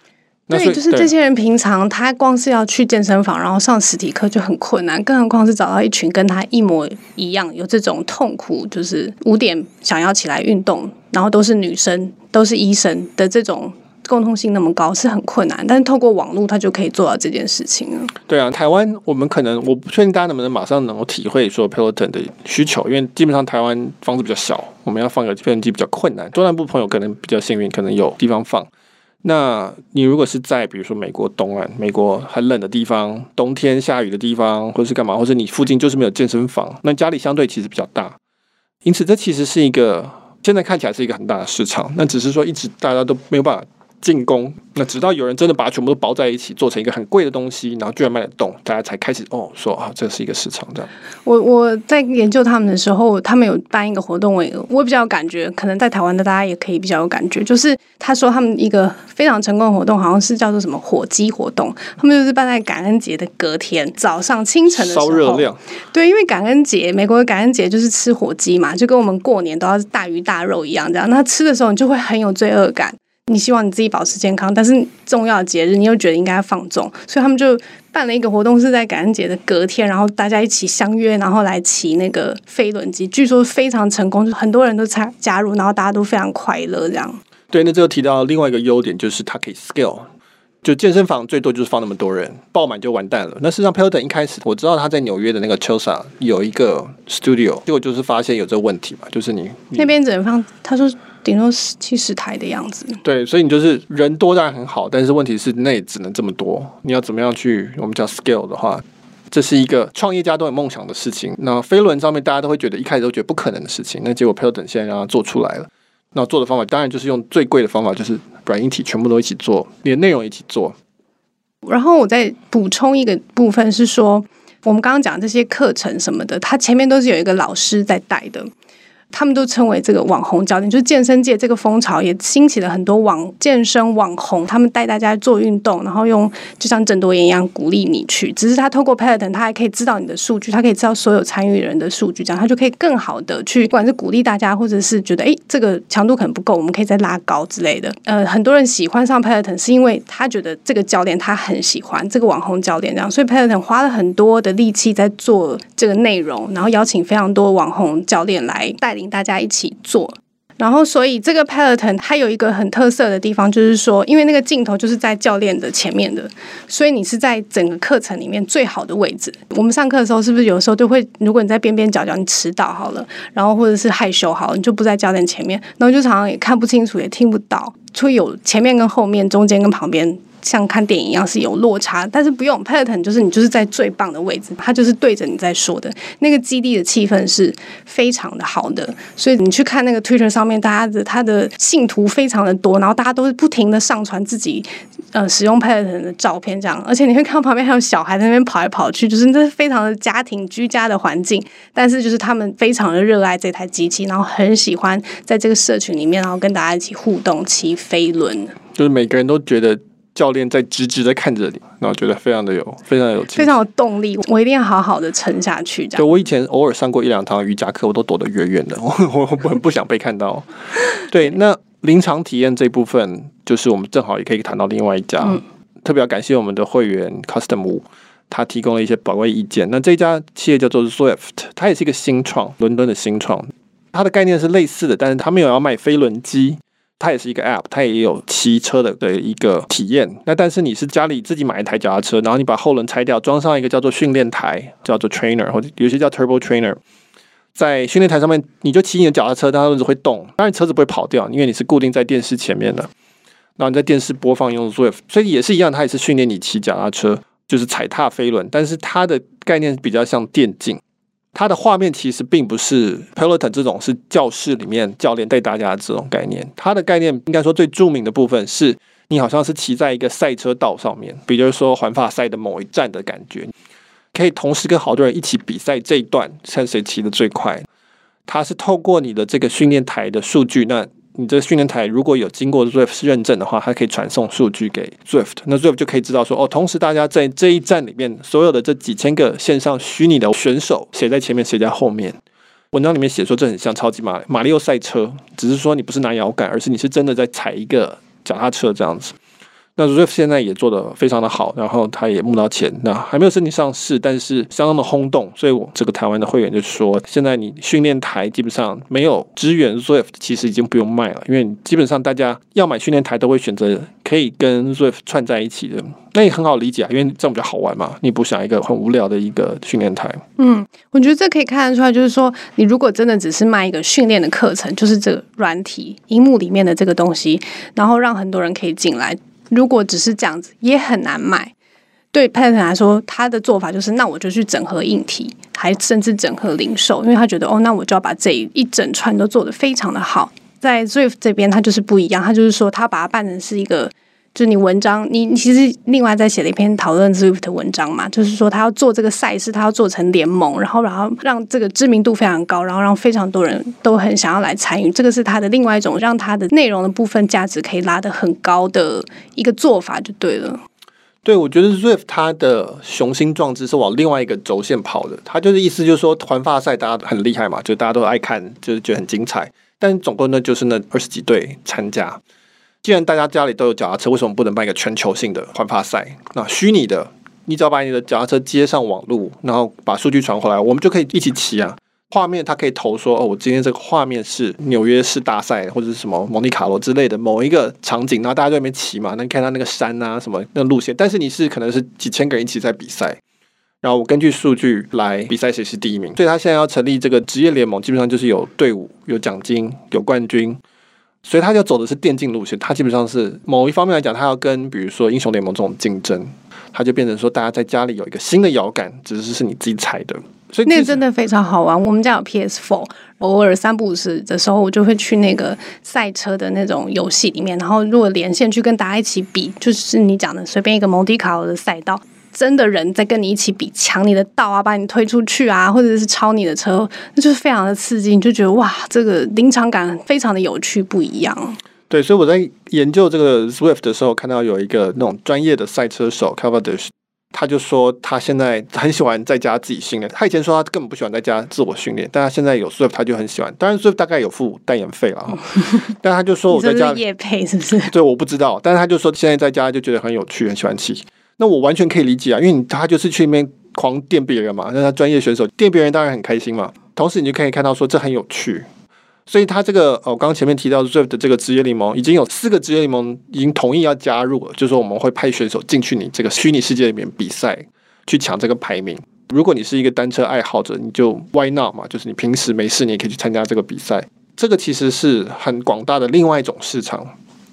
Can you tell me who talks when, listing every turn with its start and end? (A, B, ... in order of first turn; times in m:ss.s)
0:00.5-0:01.1 A
0:00.5-0:18.1 B
0:18.2-0:28.7 A
0:29.2-0:38.2 A
0:38.8-0:50.9 A
0:51.2-1:27.2 B
1:04.7-1:05.6 A
1:27.5-1:30.1 A
1:30.6-1:39.9 A
1:39.8-1:43.0 B
1:43.0-2:00.7 A
2:01.6-2:08.5 B
2:09.1-3:28.6 B
3:28.7-3:33.5 A
3:33.4-3:36.1 B
3:36.0-4:06.8 A
4:07.6-4:12.9 A
4:13.6-4:20.8 A
4:21.3-4:33.5 A
4:34.1-4:37.6 A
4:38.3-4:52.2 A
4:52.7-4:59.2 A
4:59.8-5:20.2 A
5:20.4-5:31.5 B
5:32.1-6:00.6 B
6:01.2-6:12.2 A
6:12.8-6:33.2 A
6:33.8-6:40.6 A
6:41.2-6:51.0 A
6:50.6-7:11.6 B
7:11.9-7:27.0 A
7:26.5-7:27.9 B
7:27.9-7:38.7 A
7:39.3-7:57.1 A